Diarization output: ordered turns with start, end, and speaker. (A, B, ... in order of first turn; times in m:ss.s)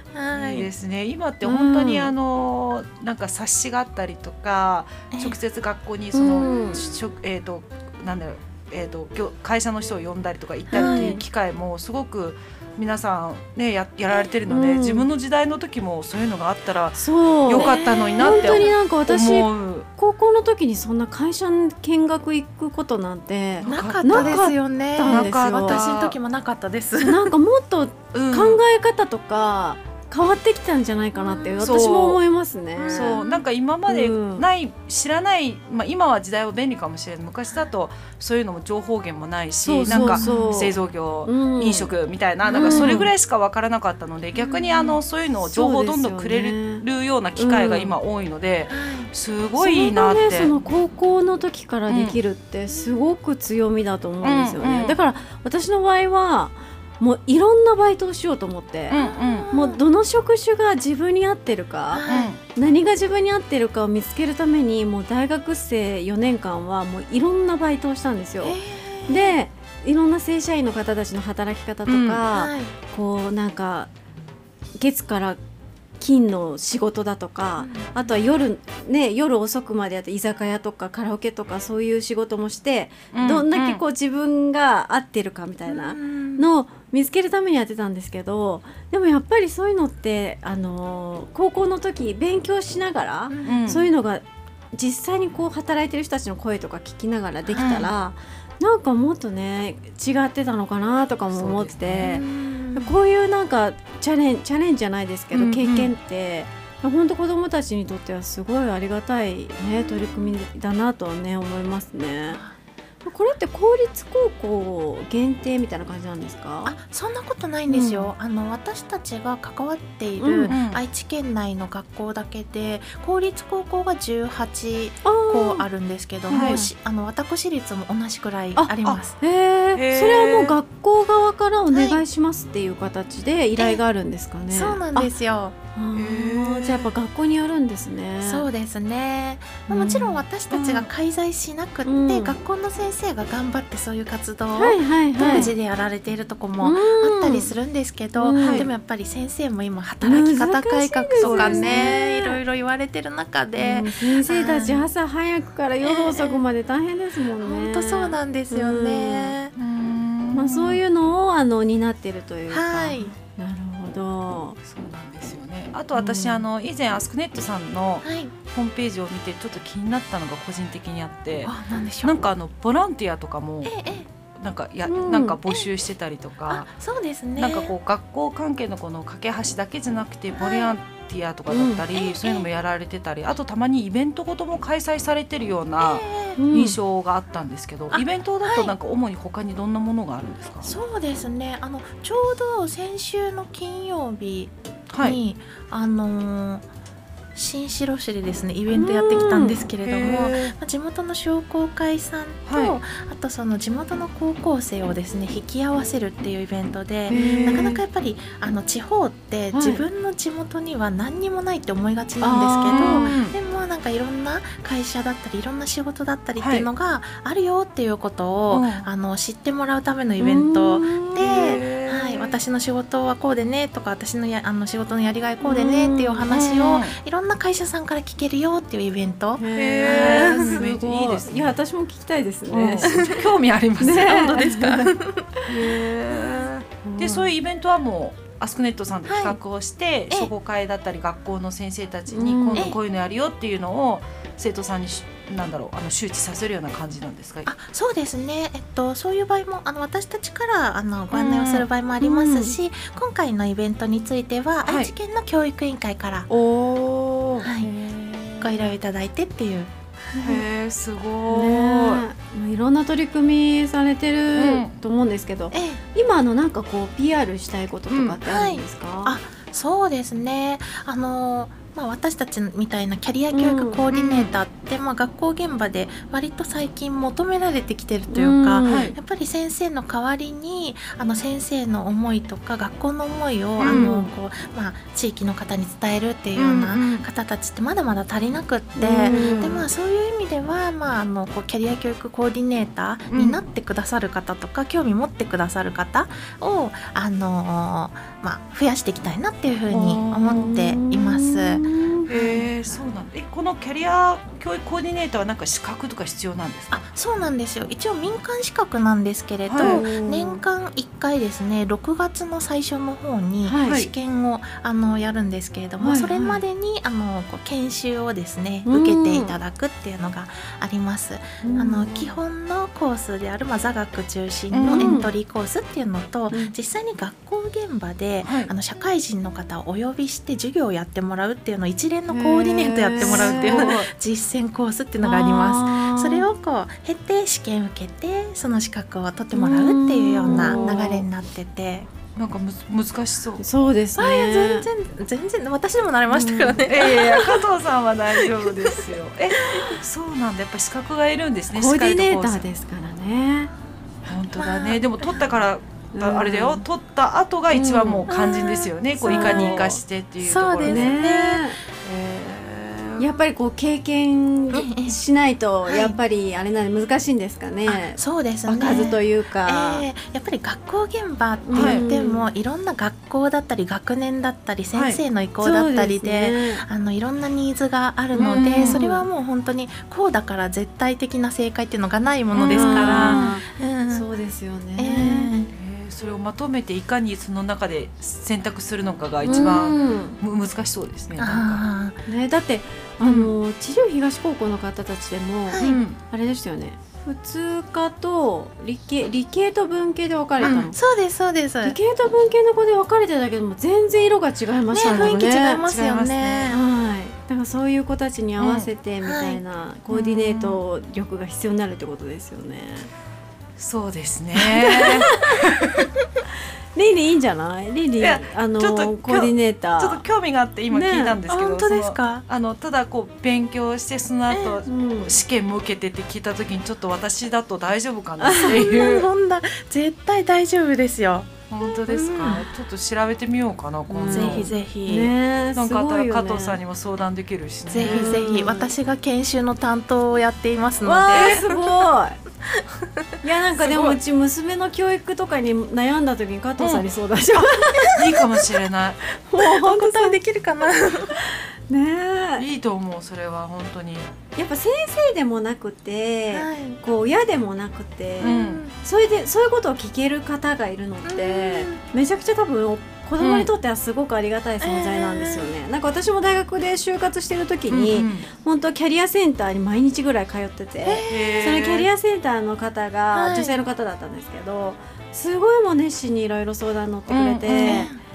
0:00.1-0:00.7 A
0:00.3-0:19.9 B
0:01.4-0:02.1 C
0:06.1-0:06.8 C
0:10.7-0:11.2 A
0:10.7-0:11.2 C
0:14.5-0:15.1 C
0:17.0-0:25.8 C
0:17.6-0:18.7 A
0:23.6-0:24.4 B
0:23.7-0:27.3 A
0:25.1-0:26.2 B
0:27.0-0:33.2 C
0:28.1-0:28.6 B
0:31.2-0:31.9 A
0:31.6-0:32.2 B
0:32.8-0:50.5 B
0:33.0-0:33.4 A
0:33.9-0:34.4 C
0:39.6-0:40.8 C
0:39.9-0:40.6 A
0:41.3-0:41.9 C
0:42.4-0:43.1 A
0:42.5-0:43.1 C
0:44.4-0:45.0 A
0:45.4-0:46.8 C
0:47.4-0:47.9 C
0:48.7-0:49.1 A
0:49.6-0:59.0 C
0:51.9-0:52.2 B
0:54.2-0:55.0 B
0:58.9-0:59.5 B
0:58.9-0:59.8 A
0:59.5-1:13.9 C
1:01.9-1:02.3 A
1:02.1-1:02.4 B
1:08.4-1:09.4 A
1:11.9-1:12.2 B
1:12.3-1:12.7 A
1:14.8-1:15.4 C
1:16.0-1:42.2 C
1:17.6-1:18.1 A
1:23.1-1:23.8 B
1:25.7-1:26.5 A
1:33.3-1:33.7 A
1:33.4-1:33.9 B
1:37.5-1:37.9 A
1:37.6-1:37.9 B
1:41.3-1:42.2 B
1:42.0-1:42.9 A
1:42.8-1:52.4 C
1:45.3-1:45.9 B
1:49.7-1:50.4 A
1:52.3-1:52.6 A
1:53.0-1:56.8 C
1:56.7-2:09.2 A
1:57.7-1:58.1 C
2:00.2-2:00.5 C
2:00.5-2:00.8 B
2:05.0-2:05.7 C
2:06.3-2:06.7 C
2:06.3-2:06.6 B
2:08.6-2:15.1 C
2:09.7-2:10.6 B
2:11.7-2:12.0 A
2:13.6-2:13.8 A
2:14.5-2:15.6 A
2:15.8-2:18.5 C
2:15.9-2:16.9 B
2:18.2-2:34.9 A
2:20.5-2:20.9 B
2:21.8-2:22.4 C
2:24.6-2:25.5 C
2:26.6-2:27.5 C
2:28.2-2:28.7 C
2:28.4-2:28.7 B
2:30.0-2:32.4 C
2:31.2-2:31.9 B
2:33.6-2:39.3 C
2:35.8-2:36.4 A
2:37.4-2:39.5 A
2:39.6-2:40.8 B
2:40.3-2:44.6 C
2:42.5-2:43.2 A
2:44.6-2:53.8 B
2:46.0-2:46.5 C
2:48.0-2:48.3 A
2:51.4-2:52.3 A
2:53.6-2:54.1 A
2:54.4-2:56.7 B
2:54.9-2:55.4 C
2:56.5-2:57.7 A
2:57.4-3:10.7 B
3:00.4-3:00.8 A
3:01.5-3:01.8 C
3:01.9-3:02.5 A
3:05.8-3:06.4 A
3:06.4-3:06.8 C
3:07.9-3:08.7 A
3:10.6-3:16.7 A
3:14.9-3:15.2 B
3:17.4-3:50.6 A
3:18.7-3:19.6 C
3:19.8-3:20.5 B
3:22.5-3:22.8 B
3:27.1-3:27.8 B
3:27.1-3:27.8 C
3:29.5-3:29.8 C
3:32.2-3:33.1 C
3:32.6-3:33.4 B
3:36.4-3:36.7 B
3:38.5-3:38.9 B
3:40.2-3:41.6 C
3:41.2-3:42.4 B
3:45.4-3:46.3 C
3:46.3-3:47.0 B
3:49.4-3:53.0 C
3:49.5-3:51.5 B
3:52.5-3:54.8 B
3:52.9-3:53.3 A
3:53.8-3:54.9 C
3:54.2-3:55.4 A
3:55.5-4:07.5 B
3:56.8-3:57.3 C
3:59.1-3:59.4 A
4:02.1-4:02.7 C
4:07.5-4:16.3 A
4:11.1-4:11.7 B
4:12.0-4:12.6 C
4:14.6-4:14.9 B
4:16.3-4:18.7 B
4:17.4-4:17.7 A
4:18.4-4:19.7 A
4:20.2-4:22.0 B
4:21.3-4:29.2 C
4:24.3-4:24.7 B
4:25.5-4:25.8 A
4:27.9-4:28.2 B
4:28.2-5:02.8 A
4:33.3-4:33.8 C
4:33.9-4:34.3 B
4:38.1-4:38.9 C
4:38.6-4:38.9 B
4:43.6-4:43.9 B
4:43.6-4:44.1 C
4:46.4-4:47.1 B
4:48.8-4:49.6 C
4:49.0-4:49.6 B
4:53.1-4:53.4 B
4:59.7-5:00.5 B
5:00.3-5:02.1 C
5:02.1-5:06.9 B
5:06.7-5:41.9 A
5:09.5-5:10.4 B
5:09.6-5:09.9 C
5:13.4-5:13.8 C
5:13.6-5:13.9 B
5:15.8-5:16.4 C
5:18.7-5:19.4 C
5:21.4-5:21.9 C
5:24.5-5:25.0 B
5:24.7-5:25.1 C
5:28.2-5:28.5 B
5:32.1-5:33.7 C
5:33.0-5:33.9 B
5:35.0-5:36.3 C
5:39.3-5:41.0 C
5:40.3-5:41.0 B
5:42.2-5:43.4 B
5:43.4-5:44.7 C
5:44.0-5:47.5 A
5:46.1-5:46.6 C
5:46.7-5:52.5 B
5:48.2-5:48.8 A
5:49.4-5:49.8 A
5:51.5-5:53.5 C
5:54.1-6:01.0 B
5:54.4-5:55.2 A
5:55.9-5:56.6 C
5:57.5-5:58.1 C
5:58.1-6:01.6 A
5:59.0-5:59.8 C
6:00.6-6:01.6 C
6:01.8-6:03.1 B
6:03.0-6:09.9 C
6:04.5-6:05.0 A
6:05.6-6:06.0 A
6:07.7-6:24.1 A
6:11.5-6:12.3 C
6:11.6-6:11.8 B
6:14.8-6:16.6 C
6:18.1-6:19.1 C
6:18.2-6:18.8 B
6:22.3-6:23.4 B
6:22.5-6:25.3 C
6:24.8-6:25.5 A
6:25.5-6:31.6 B
6:29.2-6:30.2 C
6:31.2-6:32.0 A
6:32.1-6:40.8 C
6:35.5-6:35.8 A
6:35.6-6:36.0 B
6:40.4-6:40.7 B
6:40.4-6:41.8 A
6:41.6-6:45.6 C
6:44.7-6:46.6 A
6:44.8-6:46.5 B
6:46.5-6:52.9 C
6:48.4-6:48.7 B
6:49.0-6:49.4 A
6:49.9-6:50.6 B
6:53.6-6:55.9 B
6:54.6-6:55.4 C
6:56.8-7:00.0 C
6:58.0-7:09.1 B
7:00.7-7:01.2 C
7:01.3-7:02.2 A
7:04.3-7:04.6 A
7:04.7-7:05.2 C
7:08.2-7:08.5 C
7:08.4-7:11.4 A
7:11.5-7:14.5 B
7:11.9-7:12.4 C
7:12.0-7:12.4 A
7:13.9-7:16.6 C
7:14.1-7:15.1 A
7:15.6-7:18.2 B
7:17.7-7:21.5 A
7:17.8-7:18.7 C
7:20.8-7:22.2 C
7:21.1-7:21.6 B
7:23.2-7:28.0 C
7:23.6-7:24.0 B
7:26.6-7:26.8 B
7:27.8-7:29.0 B
7:29.1-7:30.2 C
7:29.4-7:31.2 A
7:31.2-7:32.4 C
7:32.4-7:34.1 B
7:34.4-7:57.9 C
7:36.3-7:36.8 A
7:38.2-7:38.6 B
7:38.2-7:38.7 A
7:41.0-7:41.8 A
7:43.2-7:43.5 B
7:44.6-7:45.5 A
7:47.7-7:48.3 B
7:50.8-7:51.5 A
7:51.1-7:51.9 B
7:53.1-7:53.6 A
7:57.1-7:57.9 B
7:57.6-7:58.0 A